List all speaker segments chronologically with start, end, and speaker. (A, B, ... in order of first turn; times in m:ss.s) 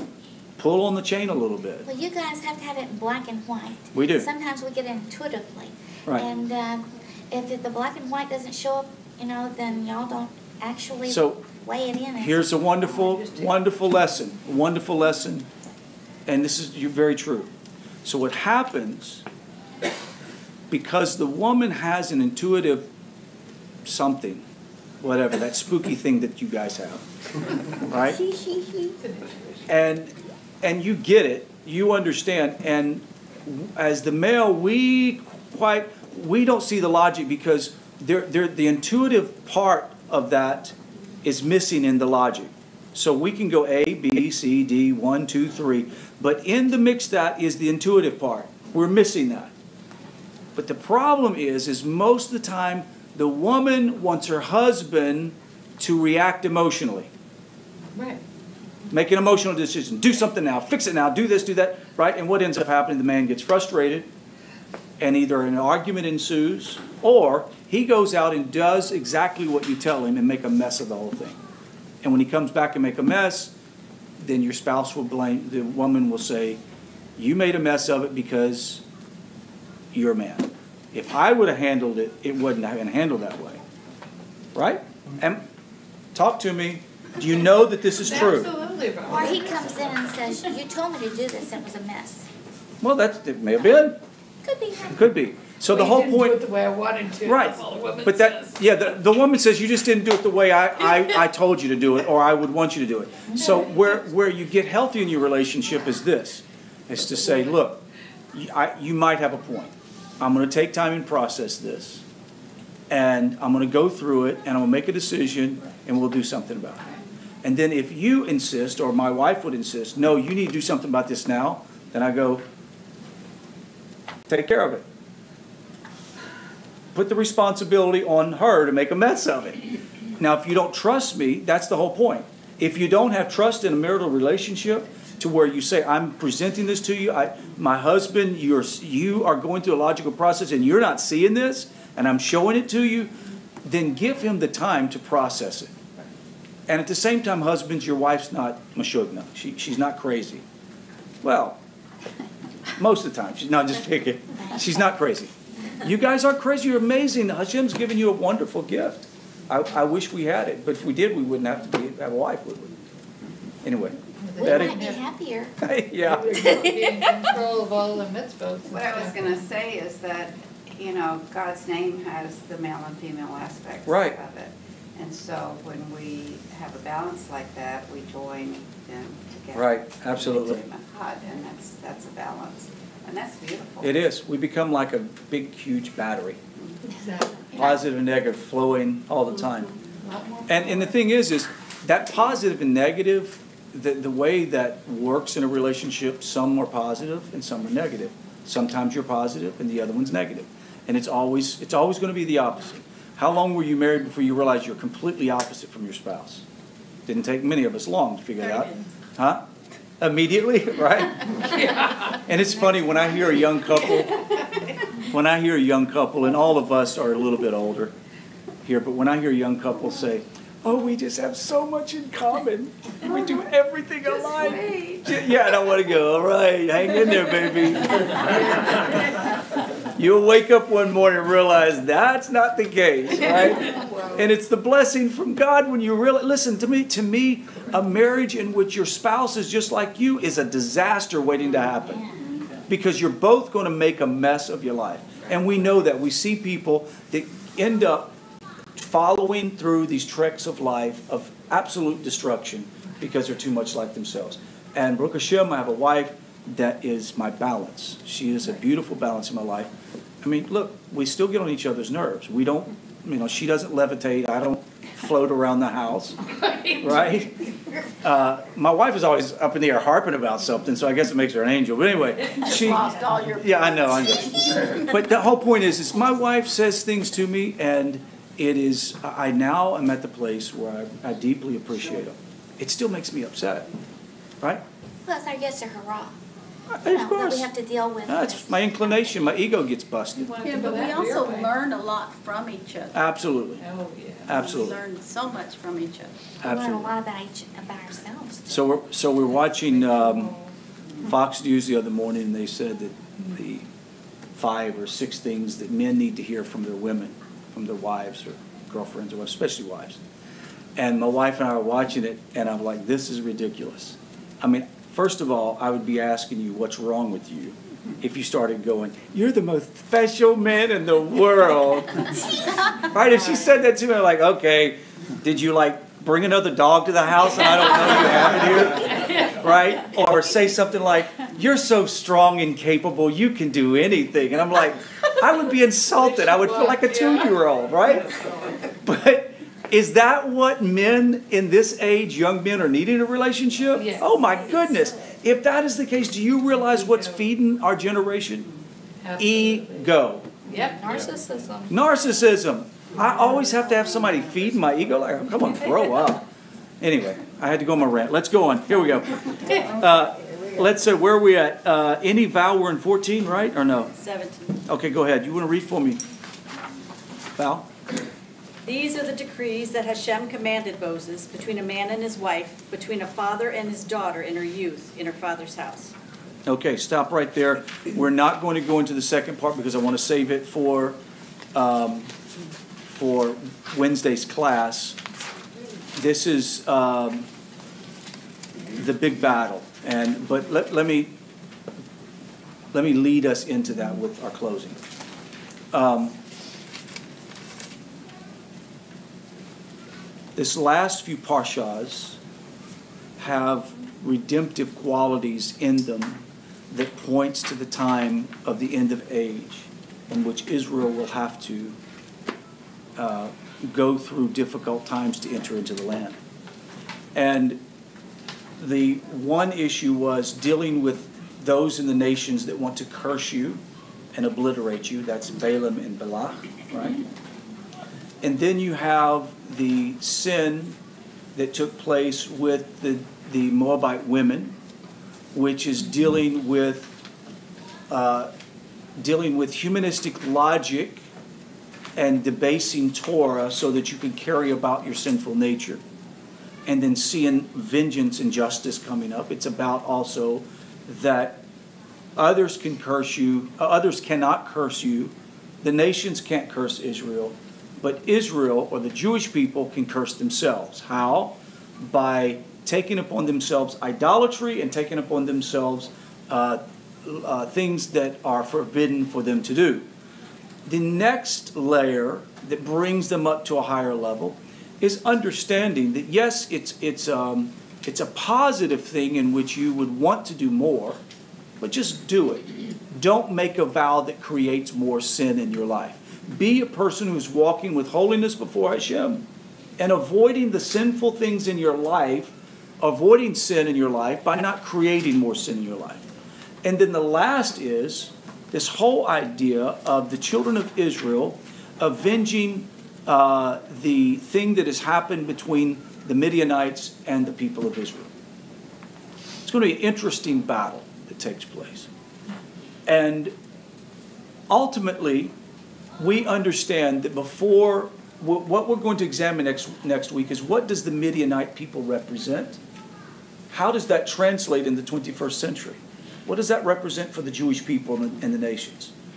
0:00.6-0:01.9 A
0:01.8-0:12.7 B
0:03.9-0:04.3 A
0:11.1-0:11.4 A
0:12.2-0:15.5 A
0:16.3-0:17.5 A
0:18.0-0:19.2 A
0:20.7-0:22.9 A
0:23.8-0:24.4 A
0:25.0-0:27.0 A
0:27.8-0:28.2 A
0:28.1-0:29.0 B
0:29.0-0:29.6 C
0:29.7-0:49.5 A
0:50.5-0:57.1 A
0:57.9-0:58.2 C
0:58.9-1:04.1 A
1:05.0-1:11.4 A
1:12.0-1:13.5 A
1:14.2-1:16.6 A
1:17.2-1:18.8 A
1:19.9-1:23.6 A
1:24.5-1:25.4 A
1:26.1-1:28.5 A
1:27.9-1:29.6 C
1:29.1-1:32.3 B
1:32.8-1:34.0 A
1:34.4-1:35.0 B
1:34.9-1:36.4 A
1:35.7-1:38.6 C
1:37.2-1:52.0 A
1:52.9-1:56.9 A
1:57.4-2:02.4 A
2:04.3-2:04.8 A
2:06.9-2:09.6 A
2:10.2-2:23.1 A
2:23.6-2:25.7 A
2:26.7-2:30.4 A
2:31.2-2:31.6 A
2:32.8-2:42.7 A
2:43.6-2:44.9 A
2:44.2-2:45.0 C
2:44.3-2:45.5 B
2:45.6-2:46.7 A
2:46.0-2:49.3 C
2:48.7-3:03.9 D
2:53.8-2:54.2 A
2:59.5-3:00.6 A
3:03.8-3:06.4 A
3:06.8-3:07.6 C
3:07.5-3:09.7 A
3:10.0-3:11.0 C
3:10.5-3:26.4 A
3:27.1-3:29.4 A
3:30.0-3:34.3 A
3:31.5-3:32.2 C
3:34.9-3:37.9 A
3:38.6-3:49.1 A
3:49.8-4:02.0 A
4:02.7-4:08.1 A
4:08.7-4:19.7 A
4:20.2-4:26.2 A
4:26.3-4:27.0 C
4:26.8-4:27.4 A
4:28.0-4:43.7 A
4:32.4-4:34.8 E
4:45.0-4:46.2 B
4:46.7-4:47.5 A
4:46.8-4:49.3 B
4:48.1-4:50.4 A
4:50.2-4:51.6 C
4:50.4-4:53.0 E
4:52.9-4:53.6 A
4:53.6-4:54.5 C
4:54.2-4:54.8 A
4:54.3-4:56.2 E
4:56.4-4:56.9 A
4:56.4-4:58.5 B
4:58.5-5:00.3 A
4:59.6-5:00.5 C
5:01.0-5:03.6 A
5:04.4-5:10.0 A
5:10.8-5:38.2 A
5:28.9-5:29.3 C
5:36.0-5:37.4 C
5:38.7-5:48.5 A
5:43.7-5:44.1 C
5:44.1-5:44.9 B
5:46.7-5:47.2 C
5:49.0-5:49.9 C
5:49.2-5:50.3 A
5:50.5-5:51.0 C
5:51.0-5:51.5 B
5:51.7-5:56.2 A
5:56.8-6:03.9 A
6:03.9-6:04.6 F
6:04.6-6:06.0 A
6:07.4-6:07.7 A
6:08.6-6:15.9 F
6:16.4-6:21.0 A
6:21.5-6:22.1 A
6:22.9-6:25.0 A
6:25.9-6:27.3 A
6:28.7-6:31.1 A
6:32.7-6:34.8 A
6:35.7-6:36.2 A
6:40.4-6:42.2 A
6:43.2-6:51.8 A
6:53.0-6:56.2 A
6:57.1-6:57.6 A
6:58.6-7:03.6 A
7:04.1-7:07.0 A
7:08.2-7:10.8 A
7:11.3-7:14.6 A
7:15.3-7:16.9 A
7:17.9-7:18.3 A
7:19.0-7:21.0 A
7:22.0-7:25.8 A
7:26.6-7:31.4 A
7:32.2-7:49.9 A
7:50.6-8:01.0 A
8:01.6-8:09.2 A
8:09.8-8:16.1 A
8:16.6-8:28.1 A
8:29.4-8:31.9 A
8:32.8-8:33.3 A
8:34.5-8:35.3 A
8:36.0-8:42.6 A
8:43.5-8:48.9 A